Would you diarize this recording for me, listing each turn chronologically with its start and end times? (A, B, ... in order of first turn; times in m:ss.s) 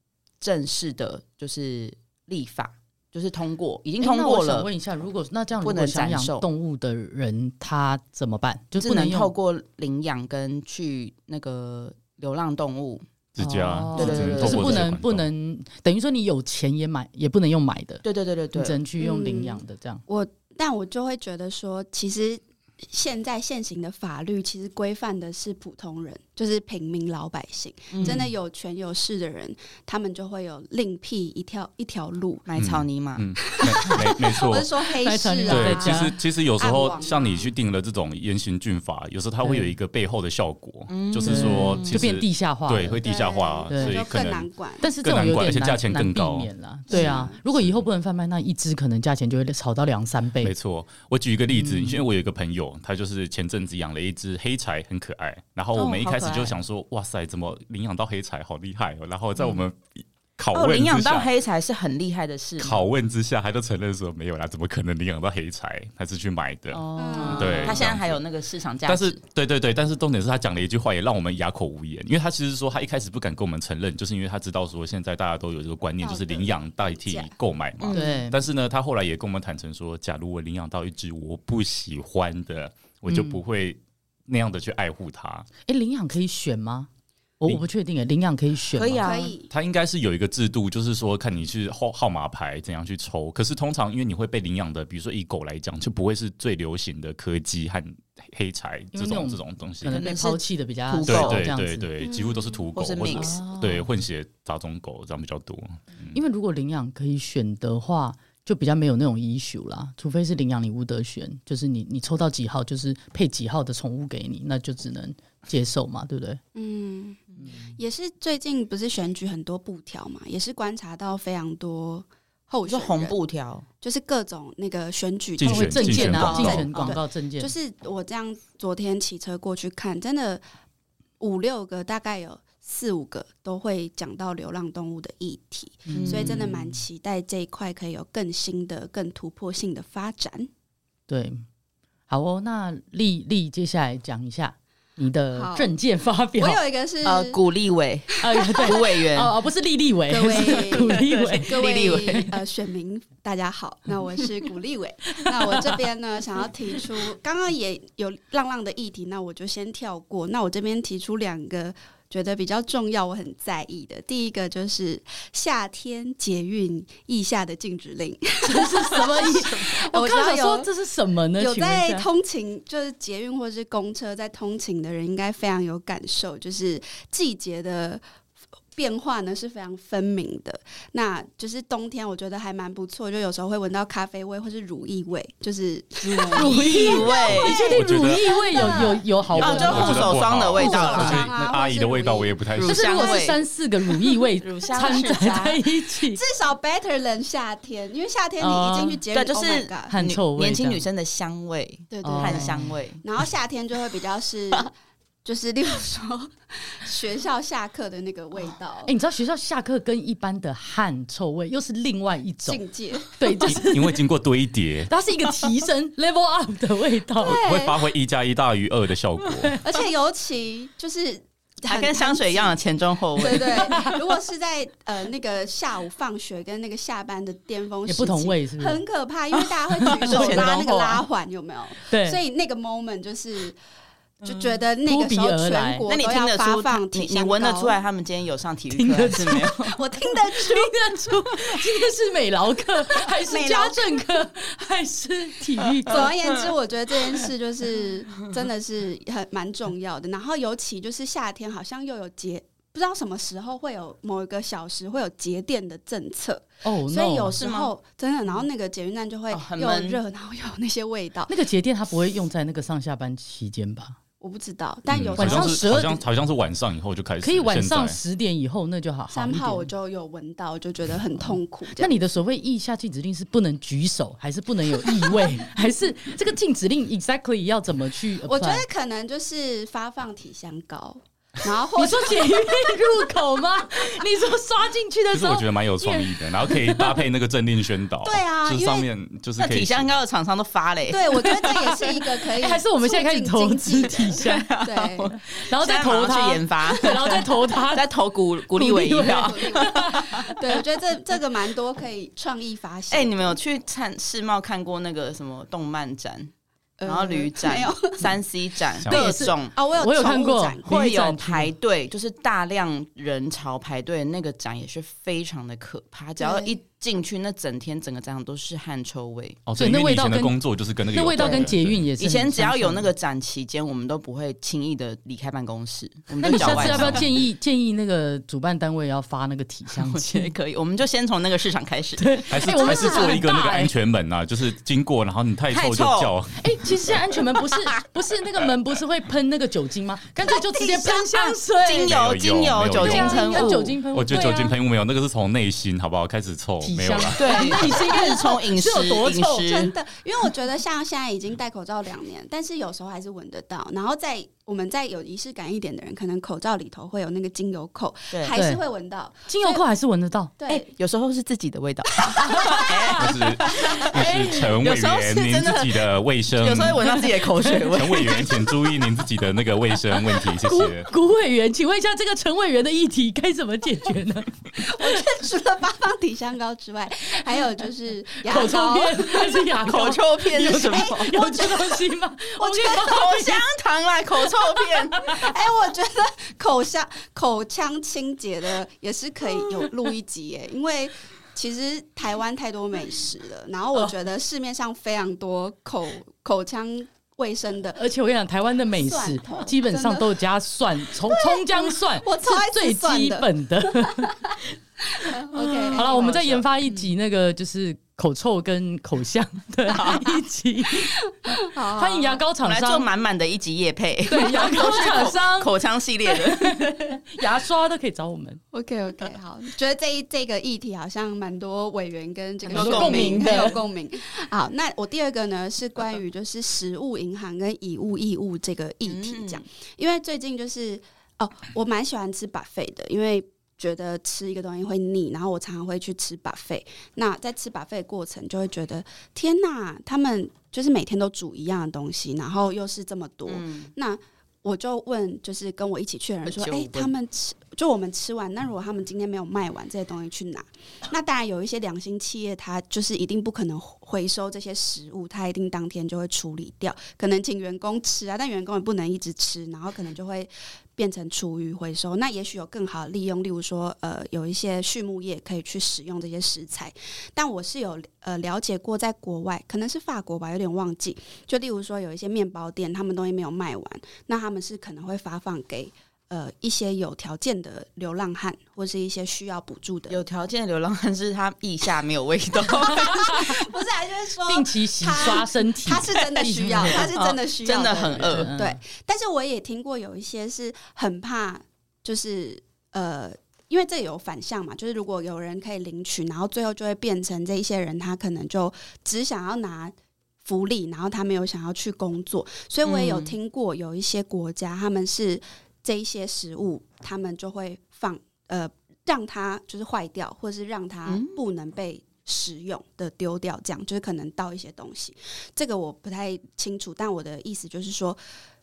0:00.4-0:04.7 A
0:04.0-0:09.3 B
0:05.6-0:06.5 A
0:08.8-0:13.0 A
0:13.3-0:15.3 C
0:13.4-0:18.0 B
0:13.9-0:14.9 A
0:18.0-0:18.8 A
0:18.5-0:20.0 B
0:19.0-0:32.4 D
0:27.9-0:28.3 A
0:32.4-0:33.3 A
0:32.6-0:34.7 C
0:33.5-0:37.5 D
0:35.0-0:36.1 B
0:35.5-0:44.5 C
0:39.4-0:39.7 B
0:40.9-0:42.0 A
0:41.2-0:43.0 B
0:43.0-0:44.9 D
0:43.7-0:44.0 B
0:44.8-0:50.5 B
0:45.0-0:47.8 C
0:46.9-0:47.4 D
0:50.4-1:01.3 C
0:51.5-0:52.0 B
0:55.7-0:56.6 A
1:00.5-1:02.9 A
1:02.6-1:08.2 C
1:06.7-1:09.2 A
1:07.0-1:07.8 D
1:07.2-1:07.5 B
1:08.9-1:25.5 C
1:16.0-1:17.4 D
1:17.8-1:18.2 A
1:17.9-1:18.3 B
1:23.1-1:23.4 B
1:25.7-1:26.9 B
1:27.4-1:29.1 B
1:28.7-1:29.3 A
1:29.0-1:29.5 D
1:29.5-1:40.0 C
1:38.9-1:41.9 B
1:39.9-1:41.5 A
1:41.0-1:46.2 C
1:42.0-1:42.6 D
1:42.7-1:43.4 A
1:43.1-1:43.9 B
1:46.1-1:56.4 B
1:56.5-2:03.2 D
2:02.6-2:03.6 A
2:03.8-2:10.4 D
2:05.4-2:06.7 C
2:05.4-2:07.5 B
2:06.1-2:06.9 A
2:11.2-2:20.5 D
2:15.9-2:16.8 B
2:15.9-2:16.5 A
2:21.1-2:21.4 B
2:22.1-2:26.6 B
2:25.3-2:25.7 D
2:26.4-2:27.4 D
2:27.0-2:29.3 A
2:28.2-2:32.3 B
2:28.3-2:28.8 D
2:30.1-2:50.7 D
2:30.7-2:32.4 A
2:35.1-2:35.8 B
2:48.4-2:52.1 B
2:51.4-2:58.0 D
2:58.8-3:12.4 D
3:06.0-3:07.7 A
3:06.3-3:11.2 B
3:07.1-3:13.0 C
3:09.4-3:11.3 A
3:12.6-3:13.4 A
3:12.6-3:16.2 B
3:12.9-3:13.3 D
3:14.4-3:15.5 A
3:14.7-3:19.9 D
3:18.4-3:19.0 B
3:19.1-3:23.0 A
3:19.9-3:20.8 B
3:21.9-3:28.9 D
3:22.0-3:22.7 B
3:28.8-3:34.0 B
3:32.4-3:33.1 D
3:33.4-3:34.9 C
3:34.9-3:37.4 B
3:37.2-3:37.8 D
3:37.2-3:39.6 C
3:39.6-3:42.6 D
3:41.7-3:43.7 A
3:43.1-3:53.6 D
3:43.5-3:44.0 B
3:47.8-3:48.8 B
3:49.3-3:51.0 A
3:49.8-3:50.5 B
3:51.8-3:52.2 B
3:54.2-3:54.6 A
3:54.2-3:57.8 D
3:54.8-3:55.9 B
3:55.9-3:59.8 A
3:58.7-3:59.6 B
3:59.6-4:01.5 D
4:00.3-4:06.1 B
4:03.0-4:03.8 D
4:05.8-4:21.3 D
4:05.9-4:06.3 A
4:16.6-4:17.4 B
4:17.3-4:17.7 A
4:19.3-4:20.0 A
4:21.3-4:24.0 B
4:24.2-4:25.7 D
4:24.9-4:28.0 C
4:25.2-4:26.0 B
4:27.2-4:29.7 B
4:29.1-4:32.0 D
4:31.2-4:38.6 B
4:38.2-4:42.7 D
4:41.7-4:47.0 B
4:45.1-4:49.9 C
4:48.0-4:48.8 D
4:49.4-4:51.4 A
4:50.9-4:55.1 D
4:51.4-4:51.9 B
4:52.4-4:54.5 B
4:54.1-5:00.3 A
4:55.3-4:57.9 B
4:58.5-5:00.3 B
4:59.0-5:03.4 D
5:02.9-5:06.3 A
5:06.8-5:08.1 D
5:06.8-5:09.6 A
5:08.8-5:09.1 C
5:08.9-5:11.5 B
5:09.5-5:10.6 D
5:10.6-5:19.4 A
5:16.2-5:16.5 D
5:19.4-5:21.9 C
5:19.6-5:20.4 B
5:20.9-5:22.9 B
5:21.1-5:27.1 A
5:26.2-5:30.3 B
5:26.4-5:27.1 C
5:29.7-5:32.9 A
5:32.0-5:33.7 B
5:32.3-5:37.0 C
5:35.5-5:36.1 A
5:36.4-5:41.9 B
5:37.3-5:37.8 A
5:40.2-5:41.3 D
5:41.6-5:43.8 A
5:41.8-5:43.3 C
5:42.9-5:44.5 B
5:42.9-5:43.6 D
5:43.9-5:47.3 C
5:46.6-5:49.6 B
5:47.1-5:49.7 A
5:49.5-5:59.6 D
5:58.1-5:58.4 A
5:58.3-5:58.6 B
5:59.3-6:00.4 B
6:00.4-6:00.6 D
6:00.5-6:08.5 A
6:02.2-6:02.7 B
6:02.5-6:02.9 D
6:03.0-6:06.9 C
6:06.8-6:07.7 B
6:07.7-6:10.9 C
6:10.1-6:15.0 B
6:14.5-6:21.8 D
6:18.2-6:23.3 B
6:19.6-6:21.2 A
6:22.4-6:23.5 D
6:22.6-6:25.1 A
6:24.7-6:37.8 D
6:24.9-6:25.3 B
6:37.8-6:44.1 B
6:38.7-6:40.2 D
6:41.0-6:44.4 D
6:45.0-6:46.4 D
6:45.3-6:46.8 A
6:45.7-6:52.9 B
6:49.7-6:50.0 A
6:51.2-6:52.2 D
6:52.4-6:57.0 A
6:54.1-6:55.5 B
6:56.0-6:58.4 B
6:58.5-8:00.0 D
7:02.4-7:03.6 A
7:02.5-7:03.6 B
7:08.8-7:09.4 A
7:23.3-7:23.7 A
7:26.2-7:26.9 A
7:59.9-8:03.5 A
8:02.6-8:38.0 D
8:04.3-8:06.9 B
8:05.9-8:08.3 A
8:07.9-8:08.6 B
8:22.6-8:23.2 A
8:30.8-8:31.2 A